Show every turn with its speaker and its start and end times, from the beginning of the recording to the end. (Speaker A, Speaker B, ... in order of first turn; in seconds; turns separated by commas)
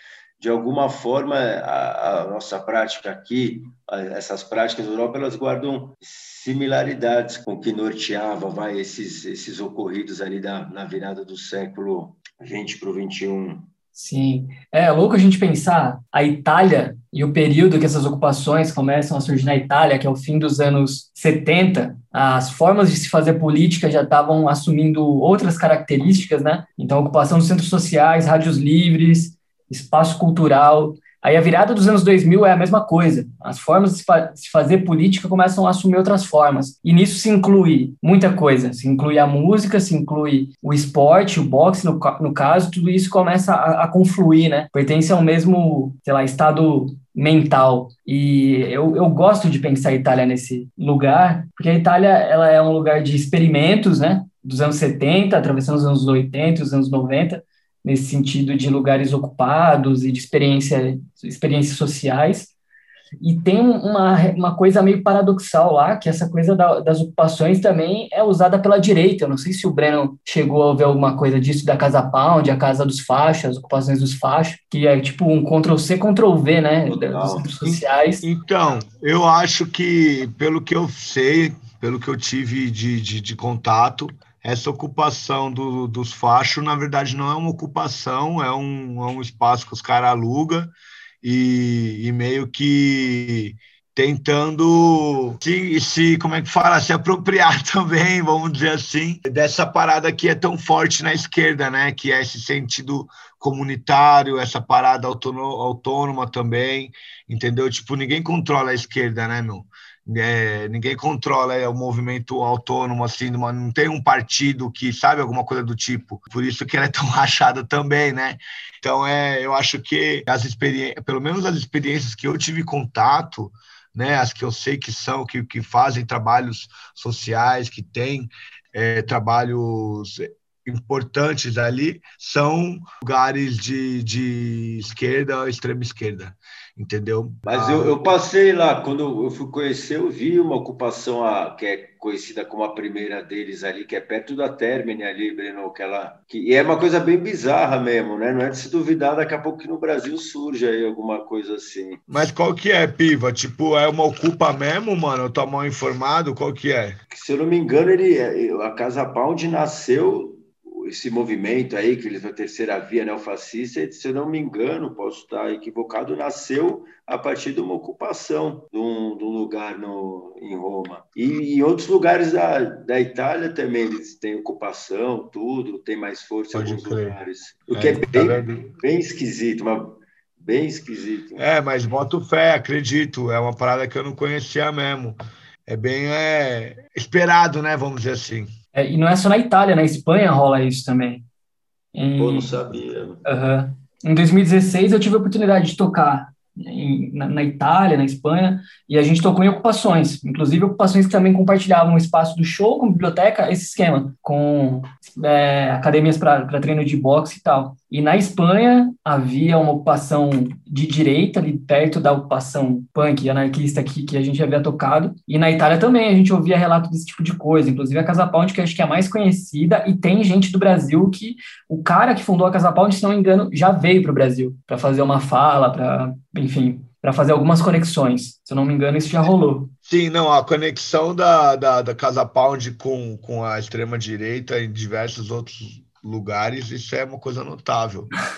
Speaker A: 0.4-13.7, Speaker B: 13.9-62.5, Speaker B: 63.2-78.2, Speaker A: 76.9-77.8, Speaker C: 78.2-138.2, Speaker A: 137.5-152.0, Speaker C: 152.1-157.0, Speaker A: 157.1-181.4, Speaker C: 176.5-177.2, Speaker C: 177.7-178.7, Speaker C: 181.4-188.5, Speaker B: 188.7-191.3, Speaker B: 191.9-192.6, Speaker A: 192.2-193.2, Speaker B: 193.2-229.7, Speaker C: 229.8-238.1